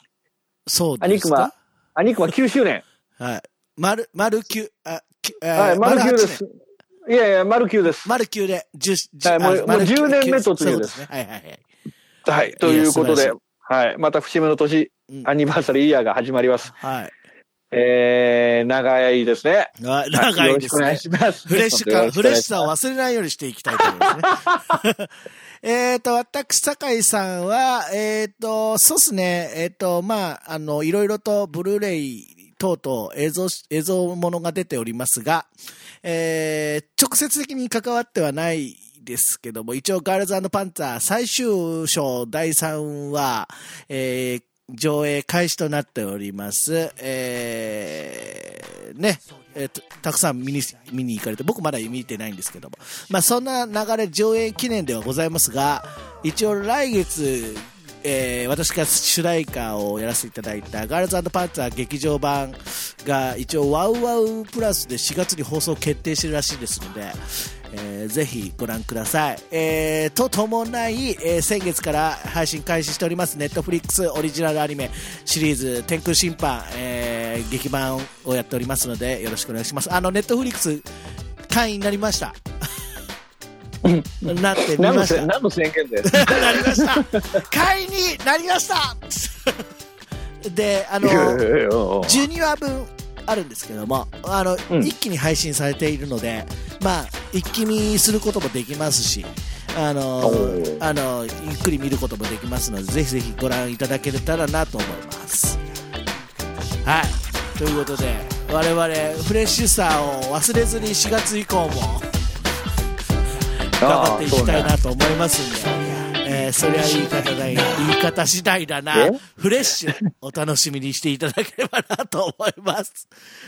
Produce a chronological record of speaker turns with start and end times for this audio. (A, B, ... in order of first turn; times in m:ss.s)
0:00.7-0:01.5 A
0:01.0-0:02.8 B
0:03.2-0:06.4 A
0:05.6-0:06.5 B
0:07.1-0:08.1 B
0:08.0-0:11.6 A
0:09.2-0:11.0 B
0:12.2-0:16.7 B
0:12.6-0:13.4 A
0:16.8-0:17.1 A
0:17.7-0:22.7 B
0:19.8-0:25.1 A
0:23.8-0:24.6 B
0:25.6-0:35.5 A
0:36.0-1:20.9 A
1:21.5-1:22.4 A
1:23.8-1:27.2 B
1:24.2-1:25.3 A
1:26.1-1:29.7 A
1:30.4-1:31.4 A
1:31.0-1:32.2 B
1:32.0-1:45.6 A
1:40.2-1:40.8 B
1:46.8-1:52.1 A
1:53.8-2:03.1 A
1:53.8-1:54.7 B
1:58.9-1:59.2 B